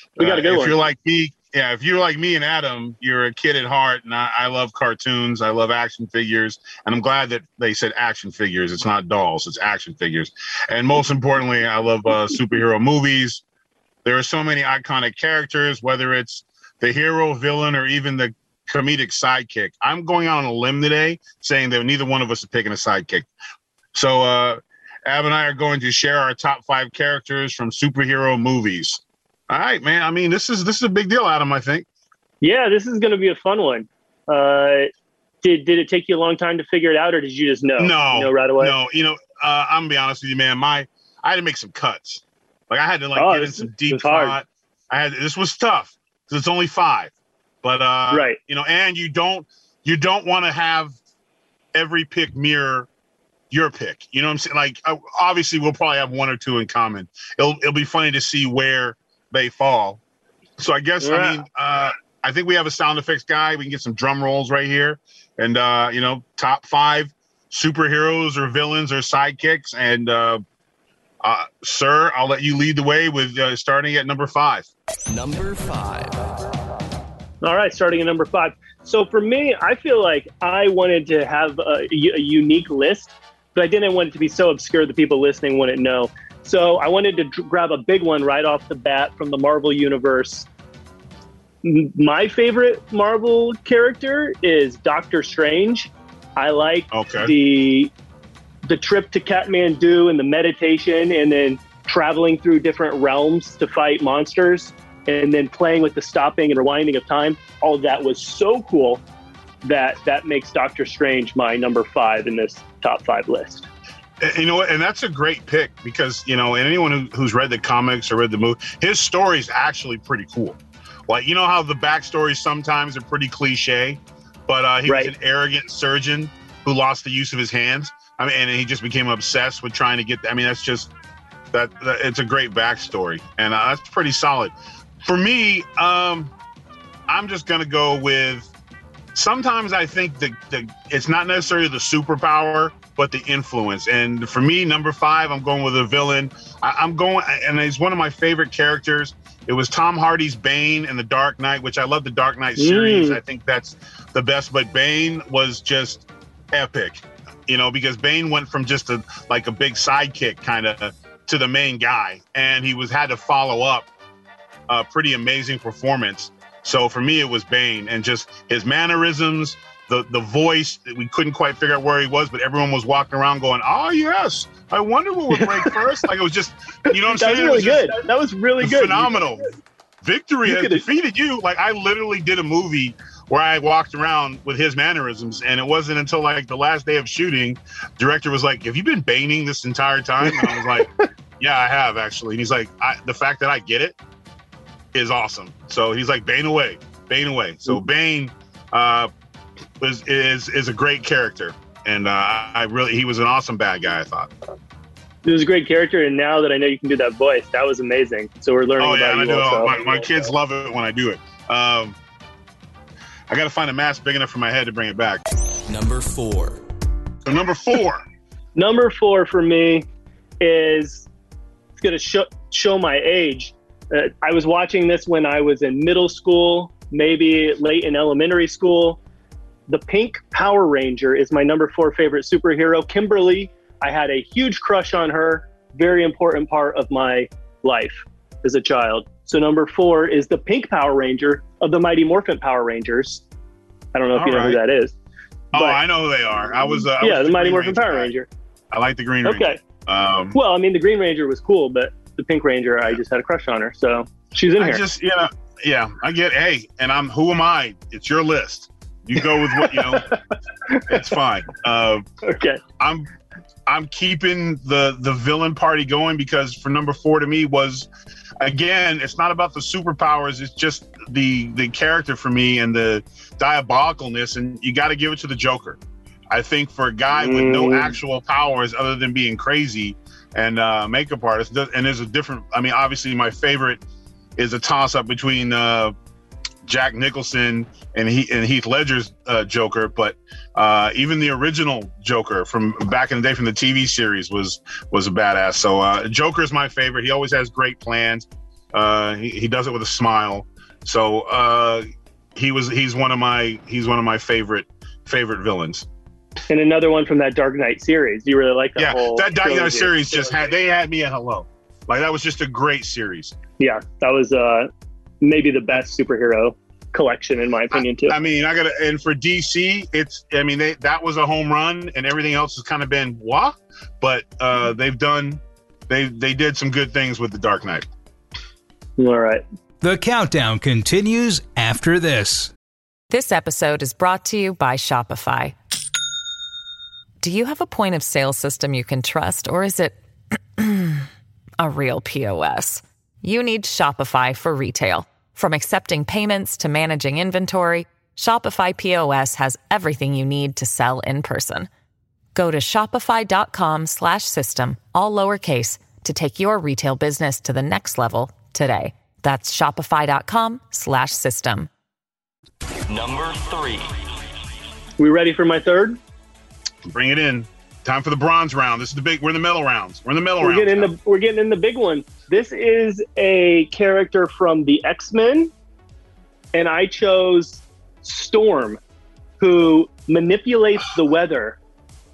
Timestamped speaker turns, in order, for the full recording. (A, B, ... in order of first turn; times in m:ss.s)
0:00.2-0:13.4 A
0:00.2-0:00.8 B
0:14.0-0:23.3 A
0:23.9-0:31.8 A
0:32.4-0:34.9 B
0:35.4-0:38.7 B
0:37.8-0:47.1 A
0:43.2-0:44.4 B
0:47.6-0:50.9 A
0:48.1-0:48.4 B
0:51.7-0:52.9 A
0:53.5-1:00.0 A
1:00.6-1:10.4 A
1:01.0-1:01.4 B
1:11.2-1:14.7 A
1:15.1-1:16.2 C
1:17.4-1:30.5 B
1:31.6-1:37.9 B
1:36.9-1:37.3 A
1:38.6-1:49.0 B
1:49.6-1:53.6 B
1:54.2-2:10.9 A
2:04.9-2:05.1 B
2:11.5-2:14.5 A
2:15.0-2:16.3 A
2:17.1-2:18.5 A
2:19.1-2:43.9 A
2:32.6-2:33.2 B
2:44.7-2:57.9 A
2:57.1-2:59.1 B
2:58.6-2:59.5 A
3:00.0-3:10.9 A
3:00.5-3:00.8 B
3:10.3-3:10.8 B
3:11.4-3:14.0 A
3:14.9-3:19.1 A
3:19.8-3:24.3 A
3:25.2-3:30.3 B
3:28.8-3:32.0 A
3:33.3-3:35.2 A
3:35.7-3:36.6 C
3:37.2-3:38.0 A
3:38.5-3:39.9 B
3:40.4-3:41.1 B
3:41.8-3:49.0 B
3:49.7-4:03.2 B
4:03.9-4:04.9 B
4:04.1-4:04.6 A
4:05.5-4:08.1 A
4:05.5-4:05.8 B
4:07.0-4:08.3 B
4:08.7-4:10.4 A
4:09.2-4:09.6 B
4:10.3-4:14.8 B
4:14.6-4:20.0 A
4:19.5-4:20.1 B
4:20.9-4:22.0 A
4:22.3-4:22.6 B
4:22.8-4:23.1 A
4:23.7-4:27.9 A
4:28.4-4:35.8 A
4:36.3-4:43.8 A
4:37.1-4:37.9 B
4:44.4-4:45.9 A
4:46.6-5:01.8 A
5:02.4-5:05.8 A
5:06.5-5:10.4 B
5:08.8-5:13.3 A
5:13.6-5:14.7 B
5:15.2-5:18.2 B
5:17.7-5:27.8 A
5:29.0-5:29.4 B
5:29.8-5:32.5 D
5:33.1-5:35.6 E
5:37.2-5:40.0 E
5:40.6-5:41.0 E
5:41.6-5:51.7 E
5:52.3-6:01.7 E
6:02.9-6:03.9 C
6:05.0-6:06.0 B
6:06.8-6:10.9 A
6:10.4-6:15.5 B
6:16.5-6:18.8 B
6:19.4-6:21.6 B